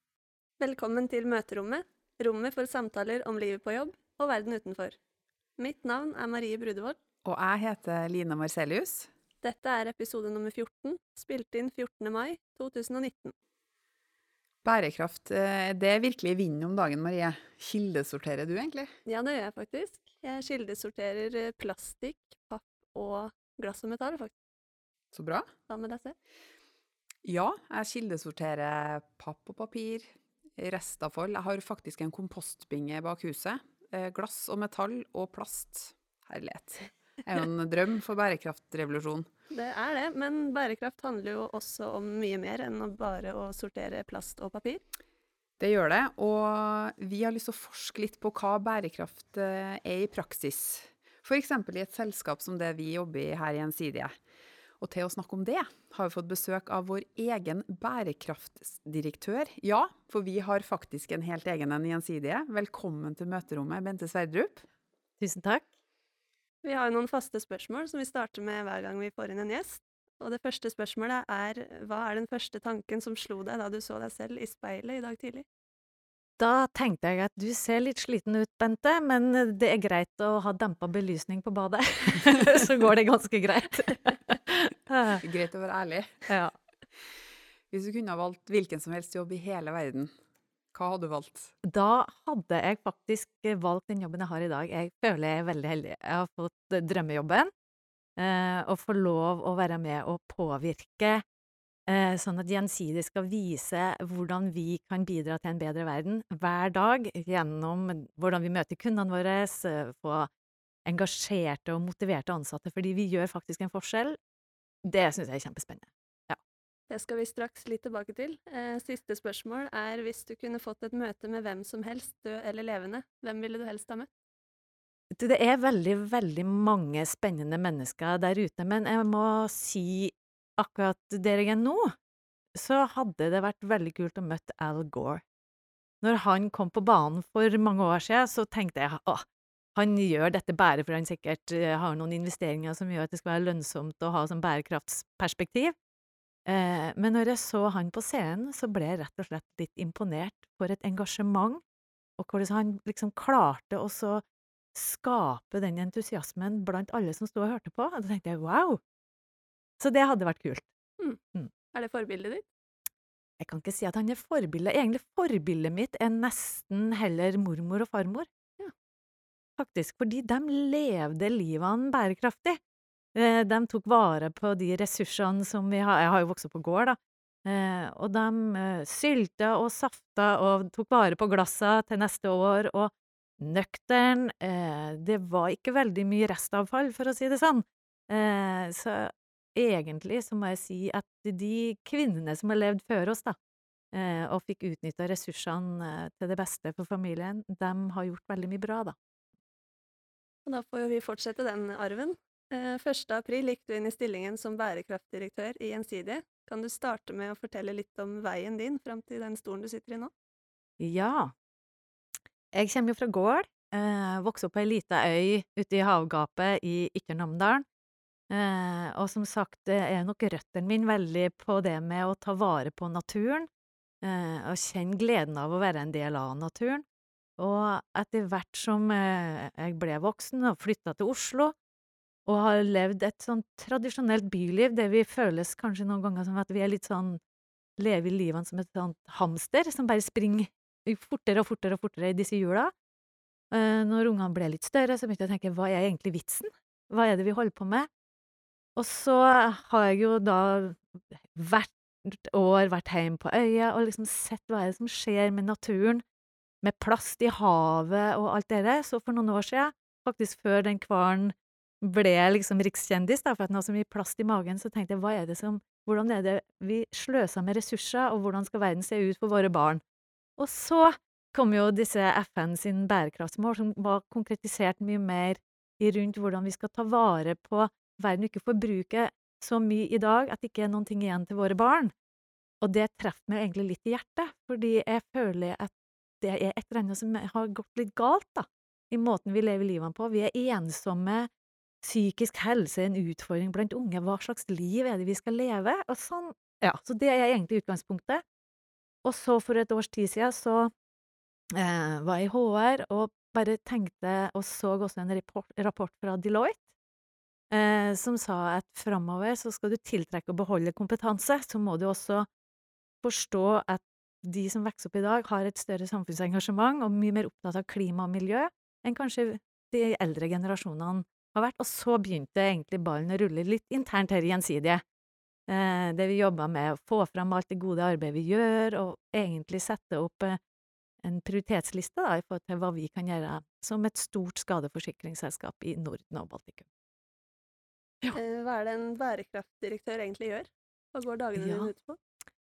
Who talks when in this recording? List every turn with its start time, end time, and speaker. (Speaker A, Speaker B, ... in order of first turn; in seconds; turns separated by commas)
Speaker A: 0.6-5.0, Speaker A: 5.6-7.0, Speaker B: 7.2-9.1, Speaker A: 9.4-13.3, Speaker B: 14.6-18.9, Speaker A: 19.1-24.3, Speaker B: 25.1-25.5, Speaker A: 25.7-26.1, Speaker B: 27.2-30.1, Speaker B: 30.6-39.3, Speaker A: 39.5-44.8, Speaker B: 45.6-54.1, Speaker B: 54.8-64.6, Speaker C: 65.2-65.7, Speaker A: 66.6-75.4, Speaker C: 76.4-85.2, Speaker B: 85.2-86.3, Speaker C: 86.3-86.5, Speaker B: 87.7-90.1, Speaker B: 90.7-91.5, Speaker C: 91.6-97.5, Speaker C: 98.2-101.2, Speaker C: 101.9-110.3, Speaker C: 110.8-114.2, Speaker C: 114.8-116.4, Speaker A: 116.9-124.1, Speaker C: 125.1-131.9, Speaker C: 132.6-135.2, Speaker C: 136.0-139.2, Speaker C: 139.7-145.7, Speaker C: 146.5-151.6, Speaker C: 152.2-154.2, Speaker C: 154.7-158.8, Speaker C: 159.8-160.7, Speaker A: 161.7-162.5, Speaker C: 163.4-168.3, Speaker C: 169.6-172.6, Speaker C: 173.1-193.4, Speaker C: 193.9-198.9, Speaker A: 200.4-210.1, Speaker C: 210.8-211.3, Speaker C: 212.5-217.6, Speaker C: 218.3-223.5, Speaker C: 224.0-226.8, Speaker C: 227.4-231.5, Speaker C: 232.2-237.2, Speaker C: 237.8-242.7, Speaker C: 243.5-247.9, Speaker C: 248.8-256.0, Speaker C: 256.6-269.8, Speaker C: 270.4-281.9, Speaker C: 282.6-291.3, Speaker C: 291.8-298.2, Speaker C: 299.0-300.7, Speaker C: 301.5-306.6, Speaker C: 307.5-312.3, Speaker C: 313.0-324.8, Speaker C: 325.5-330.4, Speaker C: 331.0-336.7, Speaker A: 338.1-342.0, Speaker C: 341.3-341.7